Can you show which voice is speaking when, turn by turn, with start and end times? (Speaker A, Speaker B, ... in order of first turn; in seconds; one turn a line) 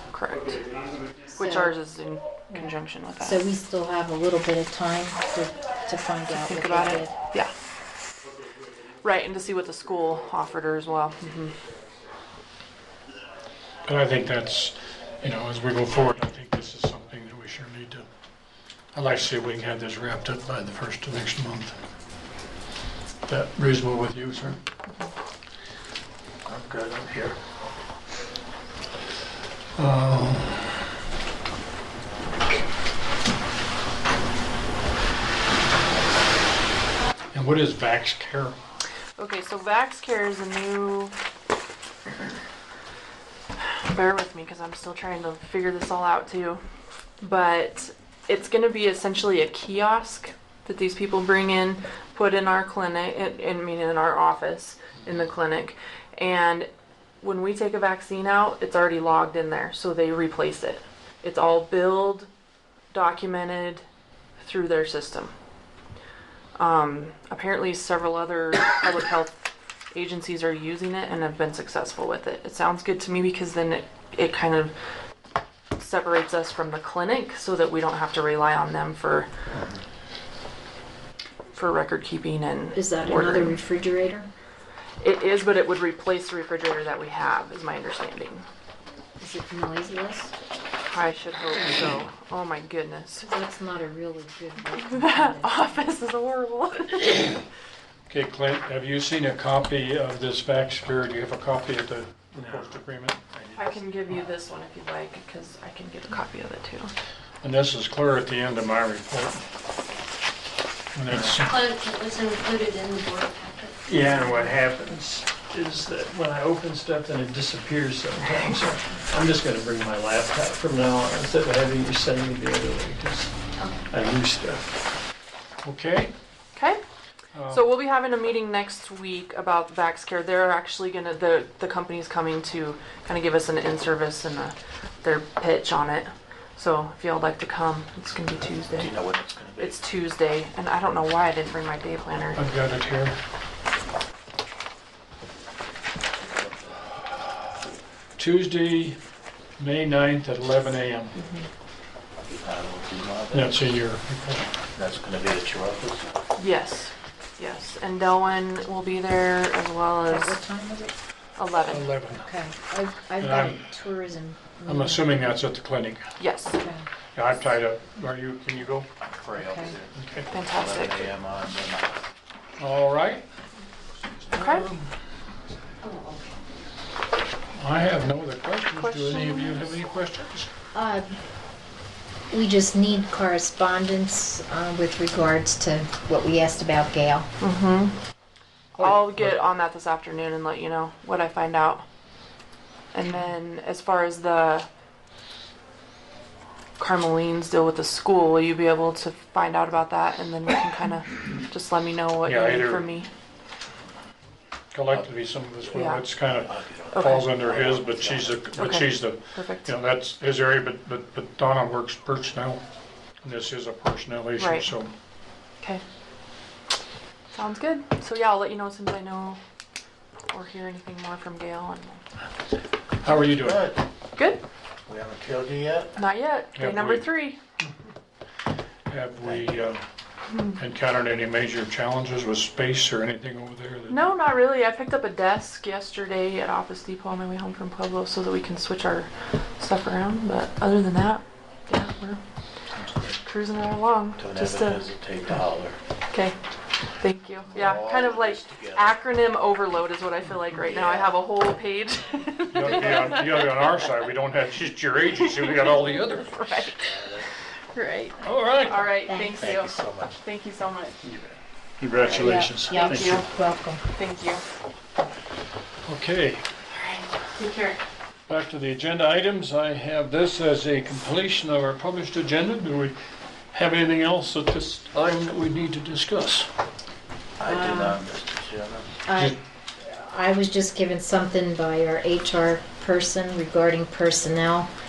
Speaker A: 0.1-0.6
Speaker B: 0.7-1.1
Speaker C: 1.3-1.8
Speaker A: 1.4-3.5
Speaker C: 2.5-7.1
Speaker A: 6.3-7.5
Speaker A: 9.0-11.6
Speaker B: 13.9-18.1
Speaker B: 18.9-21.8
Speaker B: 23.3-24.6
Speaker D: 26.5-27.4
Speaker B: 29.8-30.7
Speaker B: 37.3-38.6
Speaker A: 39.2-41.1
Speaker A: 43.6-46.6
Speaker A: 47.2-56.7
Speaker A: 57.2-62.3
Speaker A: 62.9-63.8
Speaker A: 64.4-65.3
Speaker A: 66.6-74.7
Speaker A: 75.8-79.3
Speaker D: 79.5-79.8
Speaker A: 81.5-83.5
Speaker C: 82.8-84.3
Speaker A: 85.0-88.5
Speaker C: 89.2-90.3
Speaker A: 90.9-93.3
Speaker C: 93.2-95.9
Speaker A: 94.8-97.3
Speaker B: 98.1-103.2
Speaker D: 102.4-102.7
Speaker D: 103.3-104.2
Speaker A: 103.5-106.9
Speaker B: 107.4-109.5
Speaker B: 110.9-111.7
Speaker E: 111.4-114.3
Speaker F: 113.9-123.3
Speaker F: 123.9-124.7
Speaker B: 125.6-126.1
Speaker A: 126.5-126.8
Speaker B: 127.3-127.7
Speaker A: 127.5-138.9
Speaker D: 138.8-139.8
Speaker A: 139.6-142.4
Speaker B: 142.3-143.2
Speaker D: 146.2-146.9
Speaker B: 148.2-149.0
Speaker B: 149.6-151.2
Speaker A: 151.2-151.5
Speaker D: 152.4-153.6
Speaker B: 153.3-154.5
Speaker D: 154.8-156.1
Speaker A: 156.4-160.4
Speaker C: 160.1-160.9
Speaker A: 161.4-161.9
Speaker B: 161.7-162.2
Speaker C: 162.1-165.3
Speaker B: 163.2-163.6
Speaker B: 164.7-166.1
Speaker A: 166.2-166.6
Speaker C: 166.5-166.9
Speaker B: 167.2-168.9
Speaker D: 169.0-169.9
Speaker C: 169.4-169.8
Speaker B: 169.9-170.3
Speaker A: 170.3-171.1
Speaker D: 170.5-172.0
Speaker B: 172.6-173.3
Speaker B: 174.3-174.9
Speaker A: 174.3-174.7
Speaker B: 177.6-180.5
Speaker A: 178.7-179.8
Speaker C: 180.7-181.2
Speaker C: 182.3-187.3
Speaker A: 187.4-187.9
Speaker A: 188.8-191.8
Speaker B: 188.8-189.3
Speaker A: 192.9-194.7
Speaker A: 196.8-203.1
Speaker B: 202.2-202.8
Speaker B: 204.7-212.6
Speaker D: 205.6-208.6
Speaker A: 205.8-206.1
Speaker A: 206.9-207.3
Speaker A: 208.6-209.7
Speaker B: 213.2-214.9
Speaker A: 214.4-214.7
Speaker A: 217.3-219.4
Speaker A: 220.3-222.0
Speaker B: 223.0-223.7
Speaker D: 223.1-223.8
Speaker A: 224.2-224.4
Speaker D: 224.9-225.9
Speaker A: 226.0-227.4
Speaker B: 226.6-227.1
Speaker B: 228.9-229.8
Speaker B: 230.6-234.0
Speaker A: 233.9-242.2
Speaker D: 242.8-243.1
Speaker A: 243.2-244.8
Speaker D: 244.2-245.8
Speaker A: 246.1-246.4
Speaker A: 247.0-253.7
Speaker D: 247.5-248.9
Speaker D: 250.6-251.1
Speaker B: 252.5-256.4
Speaker A: 255.2-257.0
Speaker D: 256.8-257.3
Speaker A: 257.7-261.0
Speaker B: 258.2-259.0
Speaker C: 259.1-259.4
Speaker D: 259.4-260.1
Speaker B: 261.8-263.2
Speaker C: 262.1-263.8
Speaker A: 262.6-263.3
Speaker A: 263.9-264.4
Speaker B: 265.9-266.5
Speaker A: 266.7-267.8
Speaker B: 268.3-273.0
Speaker B: 273.5-276.5
Speaker D: 277.4-278.9
Speaker C: 277.4-278.0
Speaker C: 279.1-284.7